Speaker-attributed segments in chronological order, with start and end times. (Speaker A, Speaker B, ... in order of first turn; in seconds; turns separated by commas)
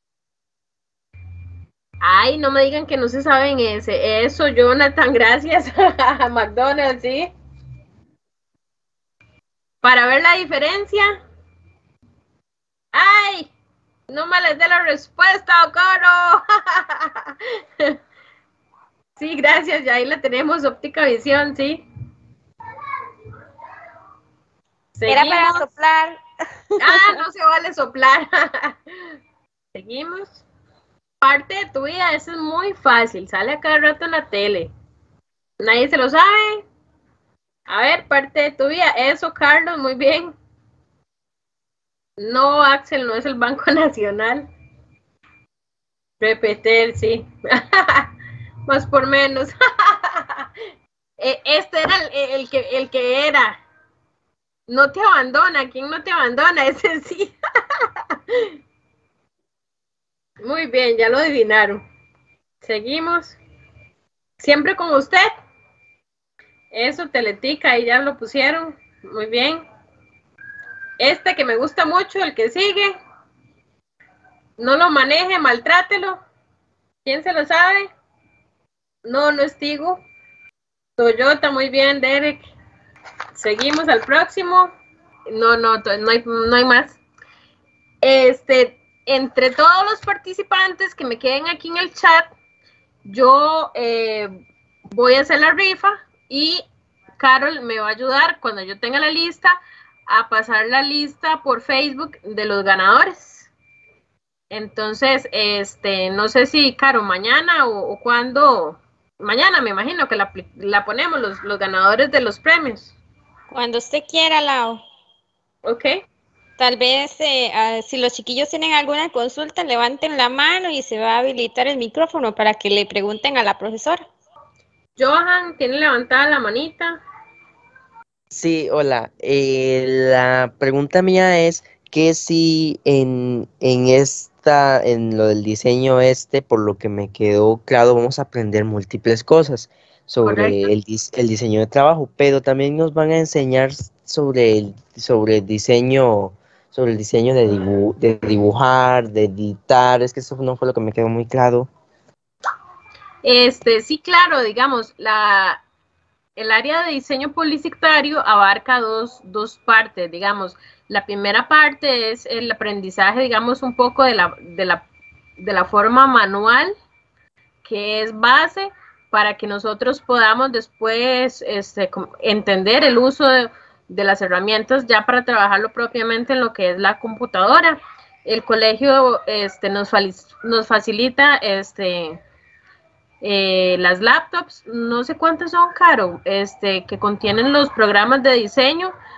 Speaker A: 2.0-7.3, Speaker A: 9.8-11.2, Speaker A: 12.9-13.5, Speaker A: 14.1-18.0, Speaker A: 19.2-21.8, Speaker A: 25.0-25.6, Speaker B: 25.1-26.2, Speaker B: 26.7-27.1, Speaker A: 26.8-28.8, Speaker A: 29.7-30.4, Speaker A: 31.2-34.7, Speaker A: 35.6-36.6, Speaker A: 37.7-40.3, Speaker A: 42.2-44.5, Speaker A: 46.2-48.1, Speaker A: 48.7-50.5, Speaker A: 51.2-53.6, Speaker A: 54.7-57.3, Speaker A: 60.4-61.8, Speaker A: 62.6-63.4, Speaker A: 64.4-65.3, Speaker A: 66.7-69.6, Speaker A: 71.0-73.0, Speaker A: 74.6-76.2, Speaker A: 77.0-77.9, Speaker A: 79.0-80.0, Speaker A: 81.0-82.5, Speaker A: 83.3-84.7, Speaker A: 85.3-87.0, Speaker A: 88.0-92.3, Speaker A: 93.1-94.3, Speaker A: 94.9-96.6, Speaker A: 97.2-99.5, Speaker A: 100.1-103.5, Speaker A: 104.5-112.9, Speaker B: 113.5-114.8, Speaker A: 115.6-115.9, Speaker B: 116.6-124.0, Speaker A: 125.0-127.0, Speaker C: 128.3-151.7, Speaker A: 140.2-140.6, Speaker A: 153.2-155.6, Speaker A: 156.4-164.8, Speaker A: 165.4-166.7, Speaker A: 167.6-182.2, Speaker A: 183.2-188.9